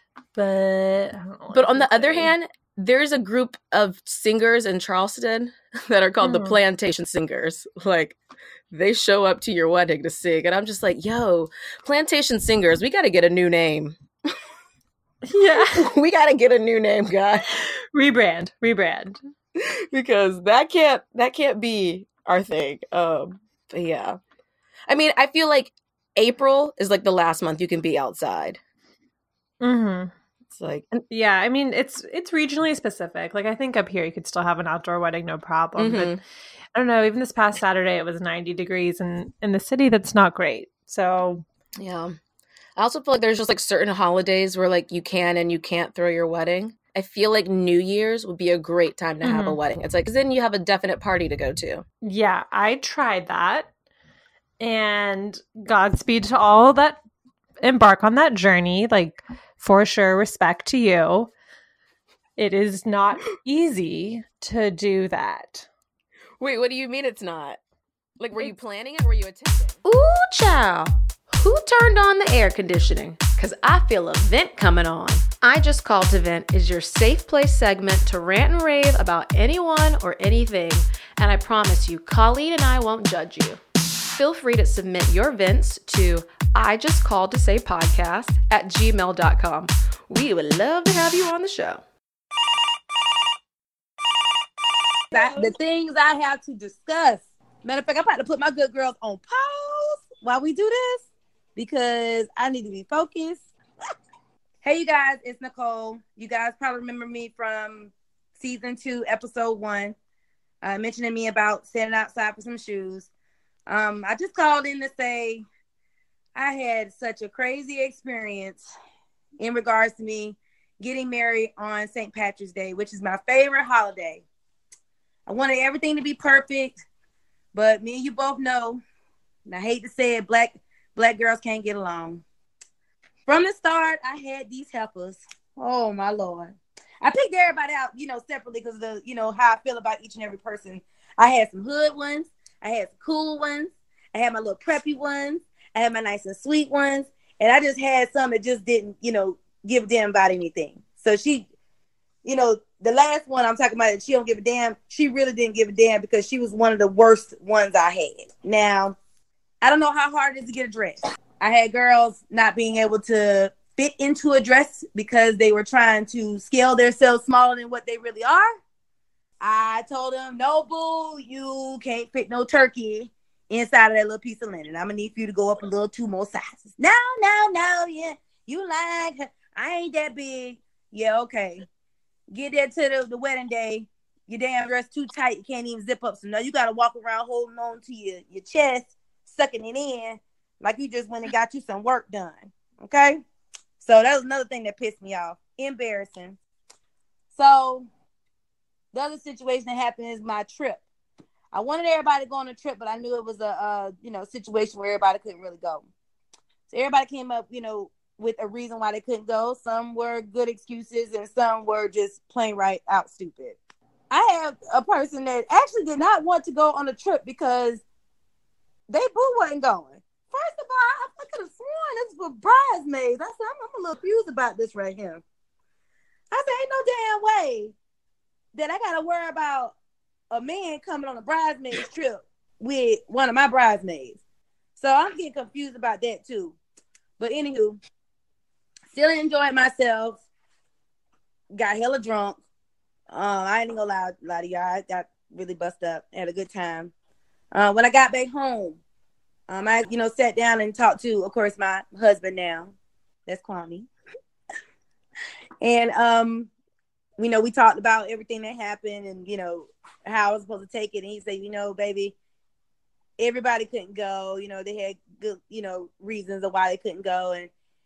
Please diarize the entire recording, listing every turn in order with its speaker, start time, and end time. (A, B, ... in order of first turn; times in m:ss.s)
0:00.3-0:02.4 A
0:01.5-0:08.2 B
0:06.2-0:06.6 A
0:08.7-0:14.0 B
0:15.2-0:15.9 A
0:15.8-0:17.5 B
0:17.6-0:19.2 A
0:19.6-0:24.2 B
0:24.9-0:28.6 B
0:29.6-0:30.1 A
0:30.5-0:31.0 B
0:31.1-0:36.2 A
0:35.8-0:36.2 B
0:36.7-0:41.4 A
0:41.8-0:42.2 B
0:42.8-0:51.8 B
0:49.2-0:49.6 A
0:52.0-0:53.7 A
0:54.6-0:57.0 A
0:57.6-1:01.3 A
1:02.4-1:05.7 A
1:06.4-1:07.6 B
1:08.2-1:09.8 B
1:09.8-1:23.6 C
1:24.1-1:31.8 C
1:35.1-1:41.0 D
1:41.6-1:43.4 D
1:44.6-1:50.0 D
1:50.6-1:53.1 D
1:53.7-1:55.4 D
1:56.3-1:58.7 D
1:59.4-2:04.2 D
2:05.3-2:06.8 D
2:07.5-2:08.8 D
2:09.4-2:12.2 D
2:13.3-2:31.5 D
2:32.2-2:38.9 D
2:39.6-2:48.6 D
2:49.4-3:01.6 D
3:02.3-3:13.2 D
3:13.8-3:16.4 D
3:17.3-3:17.9 D
3:18.9-3:20.8 D
3:21.5-3:25.9 D
3:26.7-3:33.6 D
3:34.1-3:37.8 D
3:38.9-3:45.2 D
3:46.3-3:47.7 D
3:48.5-3:49.7 D
3:50.3-3:54.2 D
3:54.8-3:56.6 D
3:57.2-3:57.8 D
3:58.9-4:00.2 D
4:01.5-4:02.4 D
4:03.1-4:06.9 D
4:07.5-4:08.8 D
4:09.5-4:12.7 D
4:13.3-4:13.9 D
4:15.6-4:16.5 D
4:17.2-4:22.1 D
4:23.2-4:27.5 D